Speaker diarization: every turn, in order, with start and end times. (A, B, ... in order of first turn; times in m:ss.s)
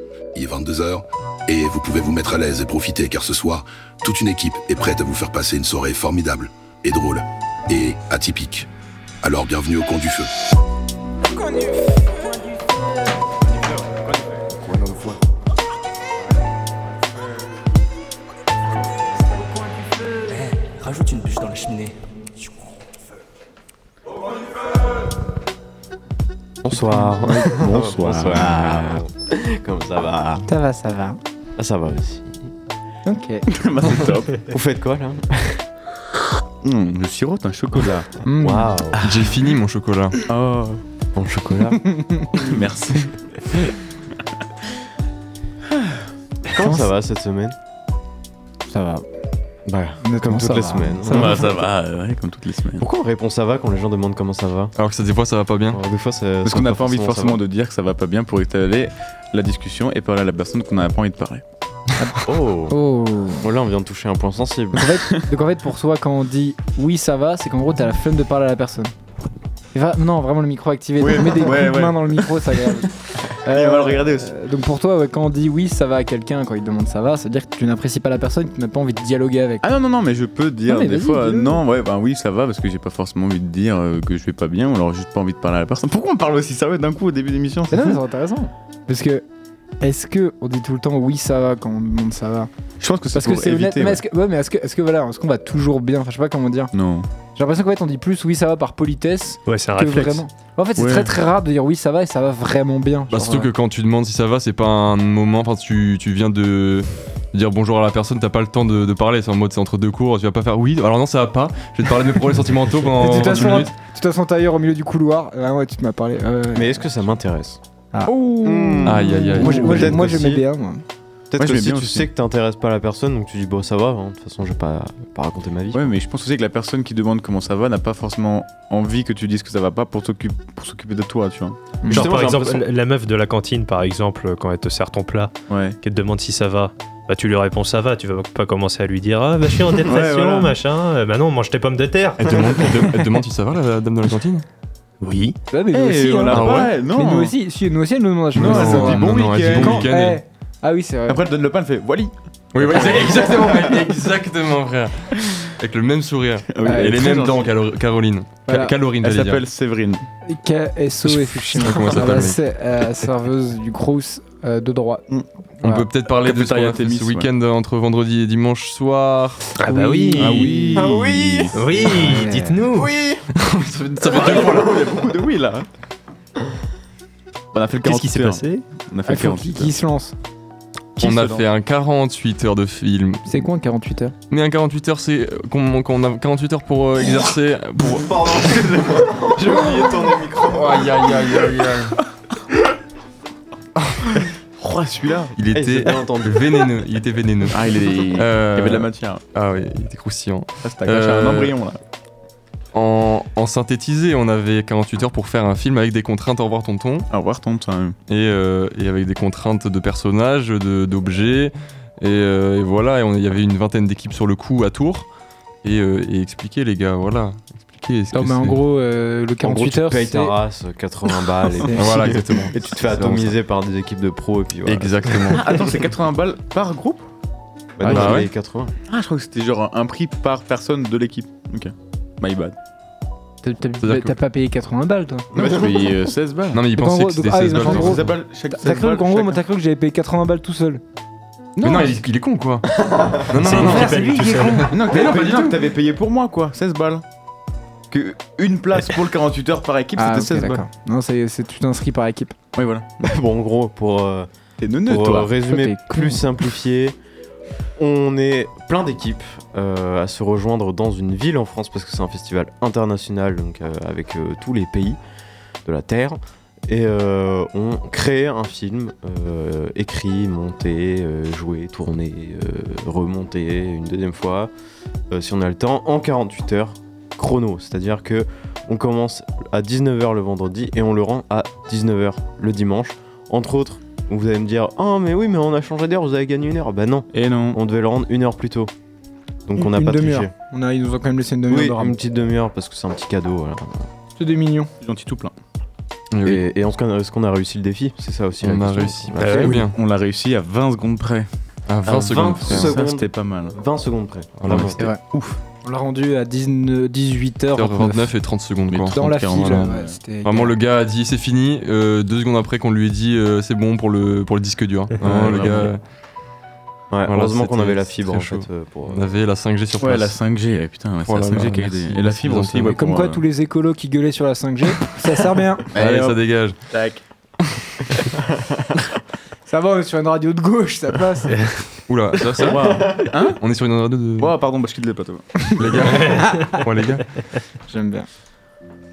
0:00.4-0:08.7 A
0:09.2-0:10.3 A
0:11.3-0:12.9 B
0:13.7-0:15.2 B
0:19.2-0:21.9 B
0:26.6-0:30.5 C
0:26.8-0:27.6 D
0:27.4-0:29.0 E
0:30.5-0:31.2 D
0:31.6-0:32.5 C
0:33.1-0:33.5 D
0:33.5-0:34.5 E
0:34.4-0:35.6 C
0:36.6-0:38.1 E
0:38.2-0:38.8 D
0:38.4-0:39.0 C
0:39.0-0:40.2 F
0:40.3-0:40.8 E
0:41.1-0:41.8 C
0:41.8-0:42.3 D
0:42.4-0:43.8 E
0:45.7-0:46.0 E
0:46.5-0:47.6 C
0:46.6-0:46.9 D
0:48.7-0:49.0 D
0:49.7-0:51.6 C
0:50.0-0:51.4 D
0:51.1-0:52.9 E
0:52.8-0:54.7 C
0:54.8-0:55.8 F
0:55.7-0:57.4 C
0:56.4-1:01.4 E
1:02.2-1:02.8 C
1:02.7-1:03.5 D
1:03.4-1:05.0 C
1:04.8-1:08.9 D
1:09.7-1:19.7 D
1:11.0-1:14.3 E
1:19.6-1:28.0 E
1:20.7-1:21.6 D
1:27.7-1:29.2 D
1:29.8-1:32.5 D
1:32.8-1:34.0 E
1:33.1-1:36.7 D
1:36.7-1:37.1 E
1:37.4-1:43.5 D
1:39.5-1:40.2 G
1:40.8-1:41.1 E
1:43.1-1:53.7 F
1:53.0-1:56.8 D
1:56.5-1:57.6 C
1:58.1-2:00.0 E
1:58.4-2:00.5 C
1:58.8-2:00.0 F
1:59.4-2:00.8 D
2:01.3-2:05.8 C
2:01.4-2:02.1 E
2:05.7-2:12.7 E
2:11.8-2:12.1 D
2:11.9-2:22.2 G
2:12.0-2:12.3 C
2:15.5-2:15.8 E
2:19.8-2:20.6 E
2:22.2-2:24.4 F
2:22.3-2:23.0 E
2:25.0-2:25.4 G
2:25.5-2:31.2 D
2:25.7-2:27.3 E
2:26.3-2:26.7 F
2:28.3-2:29.9 E
2:28.4-2:30.2 F
2:31.1-2:33.7 E
2:32.5-2:39.4 F
2:36.5-2:37.5 E
2:36.6-2:37.0 D
2:38.5-2:38.7 D
2:39.0-2:40.1 E
2:40.2-2:45.1 D
2:41.1-2:42.4 F
2:41.6-2:42.3 E
2:45.6-2:45.9 D
2:45.6-2:49.5 F
2:46.1-2:47.3 E
2:49.6-2:50.7 G
2:49.6-2:50.9 D
2:50.2-2:52.2 E
2:50.8-2:51.6 C
2:51.5-2:52.9 G
2:51.9-2:52.7 D
2:52.7-2:55.7 E
2:53.4-2:54.8 F
2:57.5-2:59.7 E
2:57.8-2:58.7 G
2:59.1-3:00.2 D
3:01.0-3:01.5 E
3:01.0-3:03.3 F
3:03.3-3:04.1 D
3:04.3-3:08.3 F
3:07.9-3:10.9 C
3:08.4-3:10.1 E
3:10.5-3:12.0 F
3:11.0-3:11.7 E
3:13.8-3:14.2 F
3:14.6-3:15.4 E
3:15.4-3:21.6 F
3:15.5-3:16.6 C
3:17.5-3:19.2 E
3:20.6-3:21.8 E
3:22.7-3:27.1 F
3:27.1-3:28.0 E
3:28.1-3:35.1 F
3:35.6-3:38.6 F
3:38.1-3:40.4 D
3:39.4-3:45.6 C
3:41.6-3:42.2 D
3:41.7-3:43.3 F
3:44.7-3:45.5 F
3:45.4-3:47.1 E
3:47.8-3:48.7 C
3:47.8-3:48.3 E
3:47.9-3:48.3 F
3:48.9-3:52.6 E
3:53.4-3:55.3 D
3:53.8-3:54.2 F
3:55.3-3:56.6 E
3:56.5-3:58.1 F
3:56.8-4:00.8 D
3:57.6-3:59.4 E
4:01.6-4:02.0 E
4:01.6-4:02.7 F
4:03.0-4:03.6 E
4:03.2-4:05.7 F
4:03.4-4:04.7 D
4:03.4-4:04.7 G
4:04.7-4:07.0 E
4:07.9-4:10.6 E
4:10.0-4:12.3 D
4:12.6-4:13.0 E
4:13.0-4:17.0 C
4:14.6-4:15.3 E
4:15.5-4:16.2 D
4:17.8-4:25.0 C
4:25.6-4:34.5 C
4:35.1-4:48.7 C
4:47.1-4:47.6 E
4:49.5-4:50.3 C
4:49.6-4:52.0 D
4:51.5-4:53.9 C
4:54.2-4:54.7 D
4:54.8-4:55.4 E
4:56.1-4:56.4 F
4:56.2-4:59.6 C
4:58.4-4:59.8 F
4:59.2-4:59.6 G
4:59.4-5:01.3 E
5:01.7-5:02.8 F
5:01.9-5:04.9 C
5:02.2-5:03.6 E
5:04.4-5:04.7 F
5:04.5-5:05.4 E
5:05.6-5:08.1 D
5:07.6-5:09.7 F
5:08.7-5:10.0 E
5:08.9-5:10.5 D
5:10.2-5:15.8 F
5:15.0-5:15.7 E
5:16.9-5:19.1 C
5:17.1-5:20.2 F
5:19.8-5:23.2 E
5:21.0-5:22.8 F
5:22.7-5:25.7 D
5:25.7-5:26.2 E
5:25.8-5:26.6 F
5:26.7-5:27.0 E
5:29.5-5:31.5 D
5:31.3-5:31.6 G
5:31.9-5:34.3 F
5:32.2-5:33.4 E
5:32.6-5:33.0 C
5:34.2-5:36.1 E
5:35.6-5:37.1 F
5:35.8-5:37.4 G
5:37.7-5:38.1 D